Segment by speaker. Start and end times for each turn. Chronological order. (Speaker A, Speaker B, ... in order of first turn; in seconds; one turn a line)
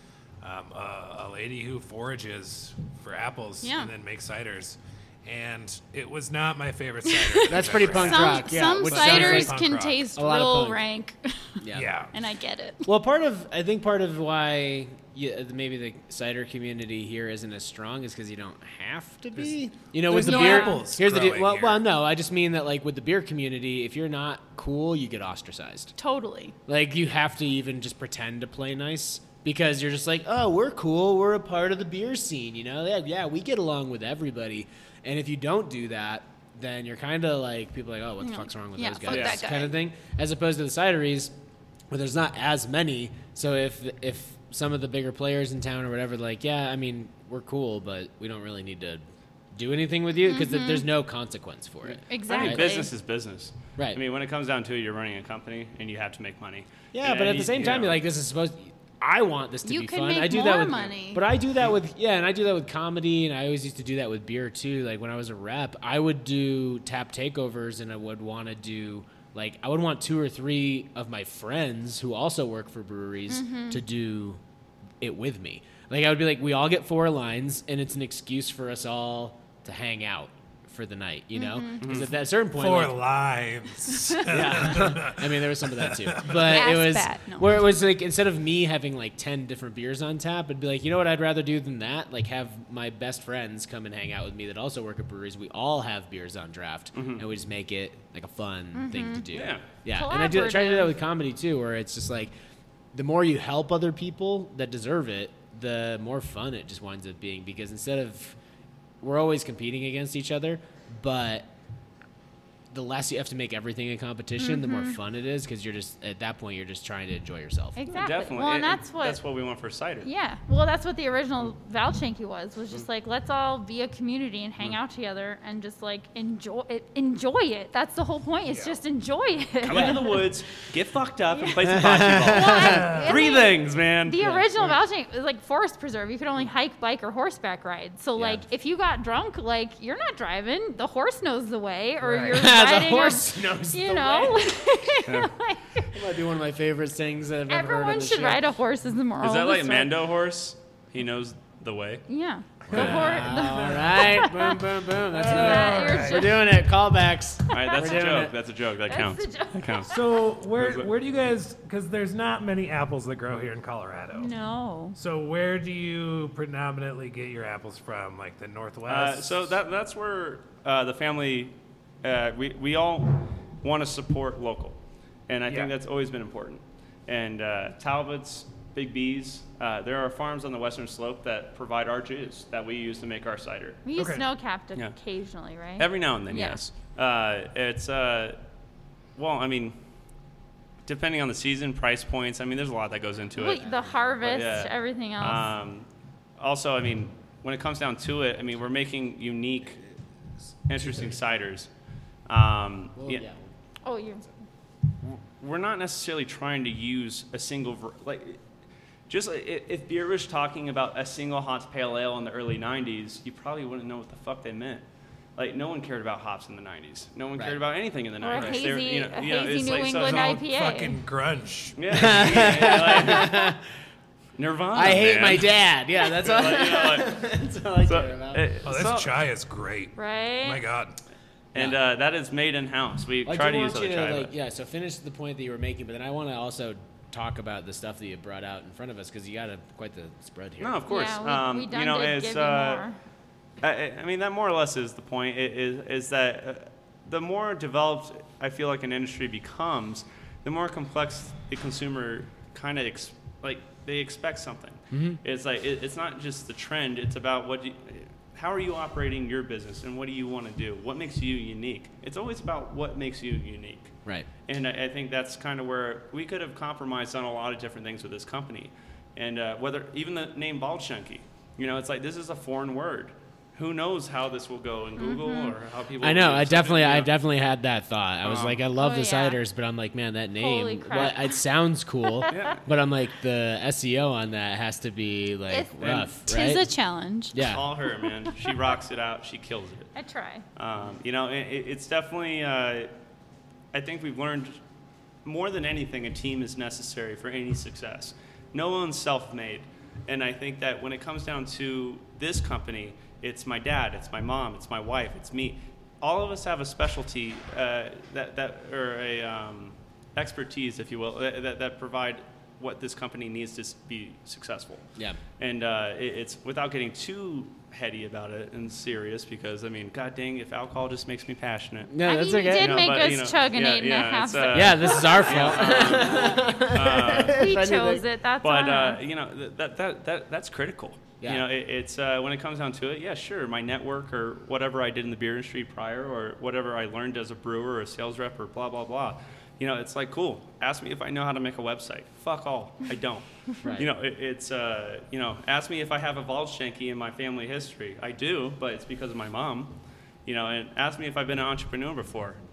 Speaker A: 0.4-10.1
Speaker B: 3.6-3.9
Speaker B: 7.0-12.9
Speaker C: 7.5-9.6
Speaker C: 10.1-10.8
Speaker C: 11.6-11.9
Speaker A: 11.7-12.1
Speaker C: 12.8-25.9
Speaker A: 20.0-21.8
Speaker B: 20.1-20.9
Speaker B: 26.0-26.5
Speaker C: 26.7-41.3
Speaker B: 38.2-39.8
Speaker D: 39.0-39.4
Speaker C: 41.9-52.7
Speaker B: 50.2-50.9
Speaker D: 51.9-58.0
Speaker B: 52.1-52.9
Speaker C: 56.9-74.4
Speaker B: 59.6-61.2
Speaker B: 73.3-73.8
Speaker C: 75.0-83.0
Speaker B: 81.3-81.9
Speaker D: 81.8-82.1
Speaker A: 82.5-86.4
Speaker B: 83.8-84.2
Speaker C: 84.3-102.3
Speaker B: 86.3-87.7
Speaker D: 96.9-97.3
Speaker B: 98.7-101.0
Speaker D: 99.3-99.7
Speaker C: 102.9-108.4
Speaker C: 109.0-111.5
Speaker C: 112.7-117.8
Speaker B: 114.4-115.0
Speaker B: 117.8-119.2
Speaker D: 117.9-120.1
Speaker B: 120.0-130.2
Speaker A: 128.5-128.8
Speaker D: 129.6-134.2
Speaker C: 129.7-130.0
Speaker C: 131.6-132.8
Speaker B: 132.2-145.9
Speaker A: 132.7-133.3
Speaker C: 134.2-134.5
Speaker C: 138.2-138.4
Speaker C: 142.2-144.5
Speaker D: 145.1-145.3
Speaker C: 145.9-148.4
Speaker B: 147.5-149.9
Speaker D: 149.2-152.1
Speaker B: 152.1-156.4
Speaker A: 152.7-153.9
Speaker D: 152.7-153.1
Speaker C: 152.7-158.3
Speaker A: 155.1-156.4
Speaker B: 157.5-158.1
Speaker D: 157.5-159.9
Speaker B: 158.9-160.0
Speaker A: 159.9-164.3
Speaker D: 160.6-160.9
Speaker B: 164.1-165.0
Speaker A: 164.9-169.6
Speaker D: 168.9-174.8
Speaker D: 175.3-183.8
Speaker B: 183.8-186.6
Speaker A: 183.9-184.2
Speaker D: 185.8-188.4
Speaker D: 189.2-189.8
Speaker D: 190.8-193.6
Speaker B: 193.3-195.5
Speaker D: 194.2-195.9
Speaker D: 196.4-199.8
Speaker D: 200.7-201.7
Speaker C: 200.8-201.1
Speaker D: 202.3-203.2
Speaker C: 203.0-203.4
Speaker B: 203.8-204.3
Speaker D: 205.4-208.4
Speaker D: 209.1-214.8
Speaker D: 215.3-220.4
Speaker B: 218.2-221.0
Speaker A: 219.9-221.8
Speaker D: 221.8-223.5
Speaker C: 221.9-223.6
Speaker D: 224.4-225.6
Speaker C: 224.7-228.4
Speaker D: 226.2-227.2
Speaker D: 227.8-229.1
Speaker A: 228.6-230.9
Speaker B: 229.9-230.6
Speaker D: 231.5-234.3
Speaker C: 233.2-240.8
Speaker D: 240.6-242.8
Speaker B: 240.9-243.0
Speaker D: 243.6-277.1
Speaker C: 254.9-255.2
Speaker B: 275.0-275.6
Speaker C: 276.0-286.7
Speaker D: 278.2-278.6
Speaker B: 278.7-279.4
Speaker B: 280.3-281.4
Speaker B: 282.0-282.6
Speaker D: 282.3-282.6
Speaker B: 285.5-287.4
Speaker C: 287.3-287.6
Speaker D: 287.4-289.9
Speaker B: 289.9-290.4
Speaker D: 290.6-292.9
Speaker D: 293.7-294.6
Speaker D: 295.2-314.9
Speaker D: 315.4-322.0
Speaker C: 321.9-322.9
Speaker B: 322.0-326.2
Speaker D: 322.5-327.5
Speaker C: 324.5-328.0
Speaker B: 327.3-329.0
Speaker D: 328.4-349.7
Speaker D: 350.2-352.4